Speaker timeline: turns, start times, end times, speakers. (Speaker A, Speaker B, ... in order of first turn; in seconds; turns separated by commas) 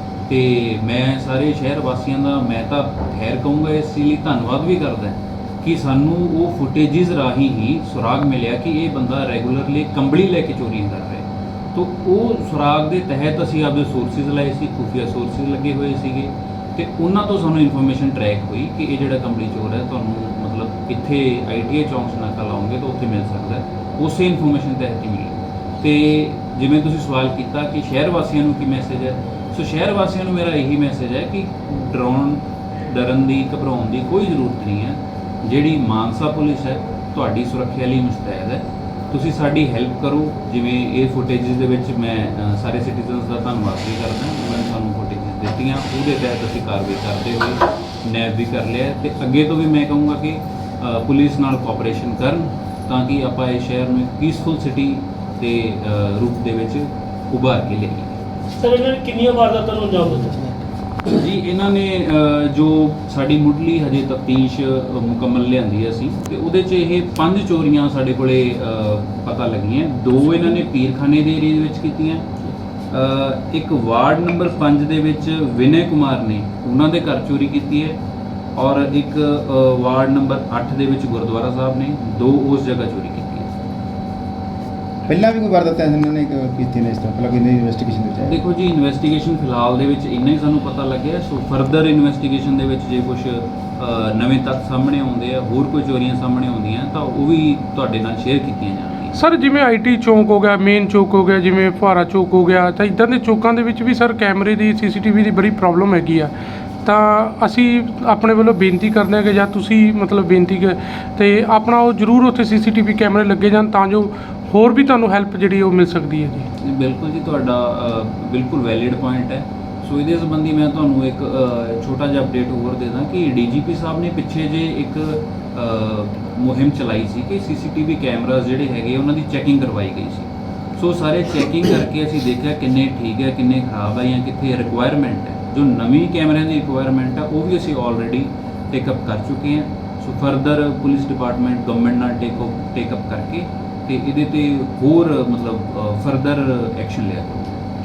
Speaker A: 0.3-58.2, Speaker B: 58.6-60.6, Speaker A: 61.1-72.2, Speaker A: 72.9-78.0, Speaker A: 78.5-83.6, Speaker C: 85.1-88.4, Speaker A: 88.2-99.2, Speaker D: 99.1-116.5, Speaker A: 116.6-147.6